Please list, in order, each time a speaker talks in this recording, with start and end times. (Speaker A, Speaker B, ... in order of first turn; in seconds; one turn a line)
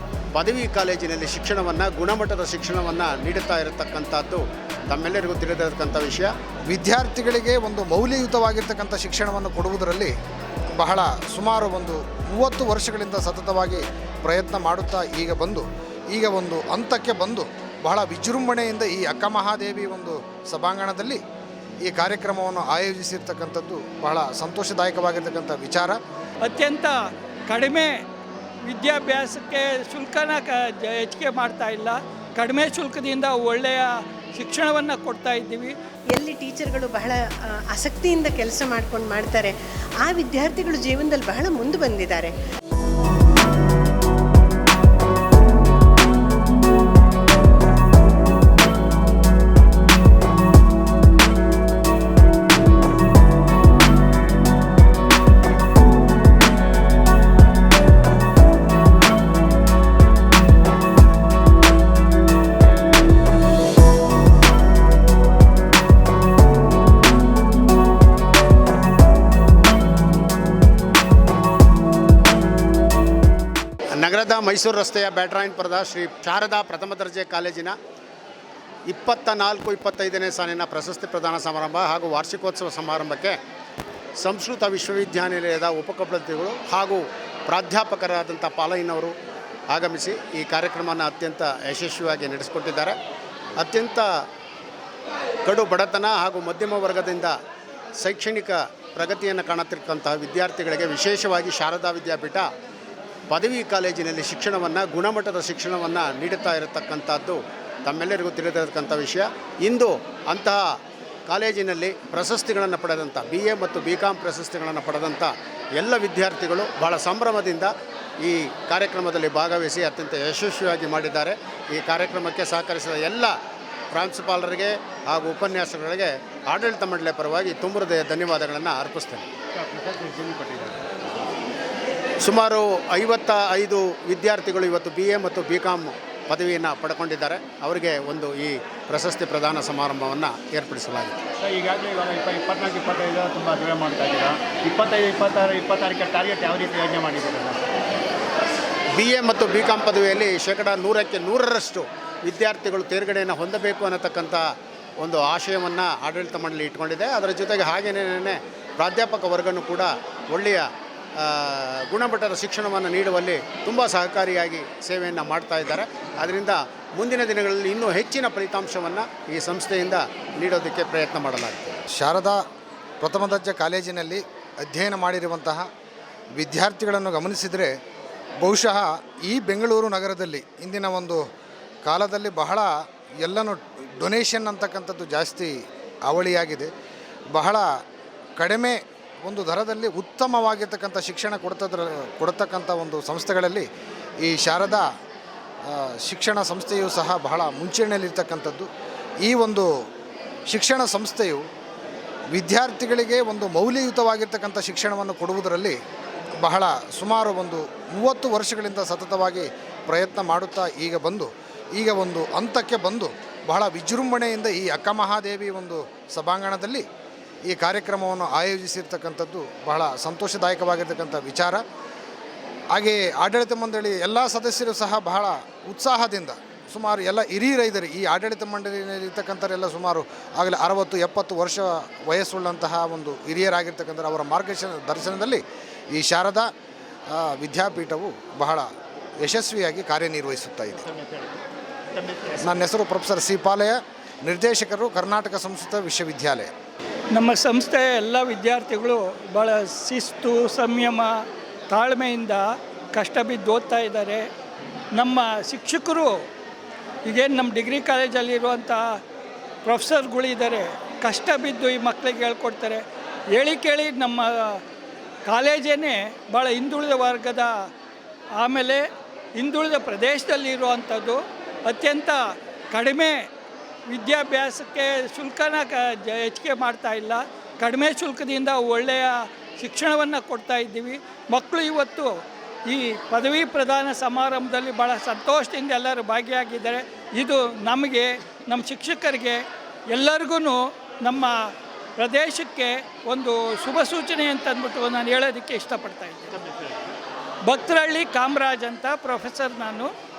Speaker A: 0.3-6.3
Speaker B: 6.7-10.1
Speaker B: 10.8-21.2
Speaker B: 21.8-26.0
Speaker C: 26.4-28.0
Speaker C: 28.7-35.8
Speaker D: 36.1-37.2
Speaker D: 37.7-39.5
Speaker D: 40.0-42.3
Speaker A: 74.0-77.8
Speaker A: 78.9-83.4
Speaker A: 84.2-89.1
Speaker A: 89.7-93.0
Speaker A: 93.6-94.1
Speaker A: 95.5-97.3
Speaker A: 98.0-102.5
Speaker A: 103.3-110.6
Speaker A: 111.3-117.7
Speaker A: 118.2-123.3
Speaker A: 123.9-129.3
Speaker E: 129.6-130.8
Speaker A: 132.2-141.2
Speaker E: 141.4-147.6
Speaker A: 149.0-154.4
Speaker A: 155.0-160.7
Speaker A: 161.2-171.8
Speaker B: 171.9-172.4
Speaker B: 173.0-175.7
Speaker B: 176.4-177.7
Speaker B: 178.4-181.2
Speaker B: 181.8-182.7
Speaker B: 183.2-186.7
Speaker B: 187.3-187.7
Speaker B: 188.4-193.7
Speaker B: 194.2-194.9
Speaker B: 195.7-198.7
Speaker B: 199.2-199.7
Speaker B: 200.5-201.4
Speaker B: 202.3-205.8
Speaker B: 206.4-216.9
Speaker B: 217.5-221.6
Speaker B: 222.7-235.4
Speaker B: 235.9-236.5
Speaker B: 237.1-238.7
Speaker B: 239.2-240.8
Speaker E: 240.9-241.3
Speaker E: 242.0-242.4
Speaker B: 242.4-246.5
Speaker C: 247.1-251.1
Speaker C: 251.7-254.3
Speaker C: 254.9-256.2
Speaker C: 257.1-259.0
Speaker C: 259.6-264.6
Speaker C: 265.3-267.7
Speaker C: 268.4-273.3
Speaker C: 273.9-296.3
Speaker E: 296.4-296.9
Speaker C: 297.4-299.9